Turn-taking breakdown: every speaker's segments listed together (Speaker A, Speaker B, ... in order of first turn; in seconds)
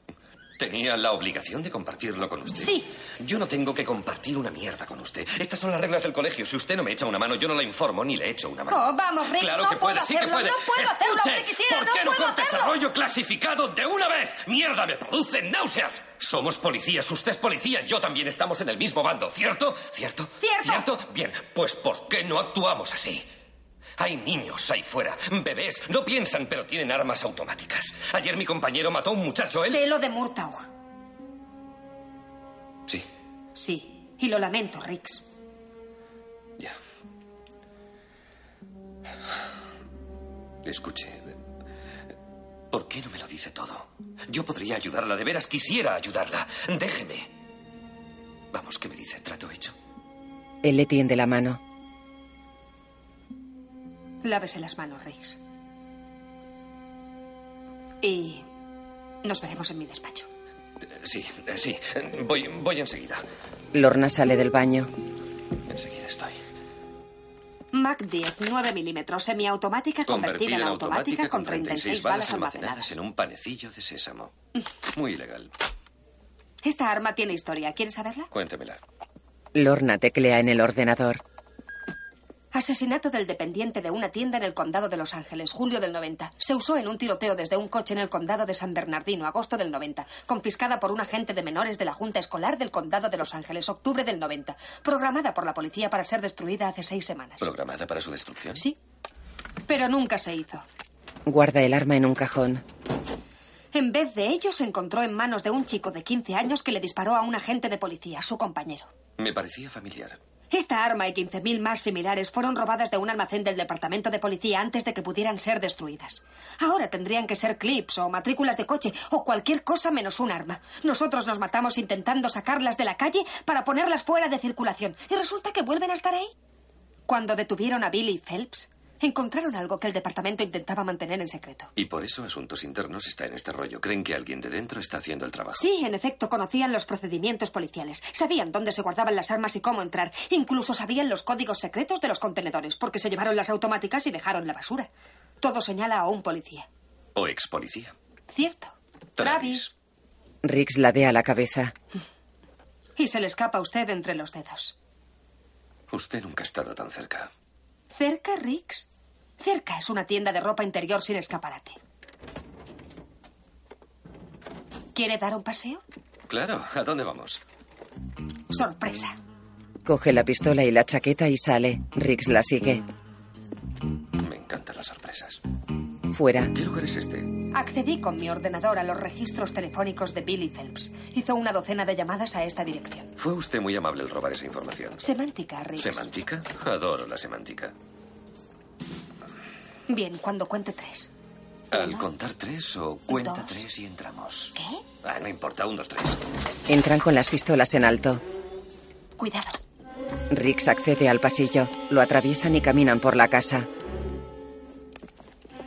Speaker A: 0.6-23.3, 24.0-29.8, 40.6-41.3, 42.7-47.3, 48.5-49.8, 60.8-63.2, 65.7-66.4, 70.1-74.3, 75.0-75.5, 78.3-78.8, 97.4-98.6, 109.2-110.2, 131.8-135.7, 147.2-147.9, 149.2-149.7, 155.9-157.3, 166.3-167.4, 174.2-175.4, 176.5-177.3, 183.2-185.1, 185.8-187.7, 191.7-196.2
Speaker B: 2.5-2.9, 8.7-12.8, 20.4-20.9, 29.6-30.6, 33.5-35.2, 54.2-55.4, 58.0-58.5, 59.2-60.3, 67.7-73.0, 76.6-78.3, 82.5-97.5, 99.7-100.6, 103.7-108.9, 110.5-126.3, 127.1-131.7, 135.6-144.9, 145.4-146.7, 148.3-149.7, 153.0-154.8, 157.9-158.9, 159.4-161.8, 164.9-165.8, 168.5-169.1, 177.5-183.1, 185.0-186.1, 189.9-191.1, 191.7-192.1, 193.1-193.6, 194.6-194.8, 199.2-199.6
Speaker C: 50.6-51.6, 63.7-64.9, 79.5-81.2, 101.3-102.6, 150.4-151.7, 169.8-172.8, 176.1-176.5, 196.7-198.2, 200.3-203.7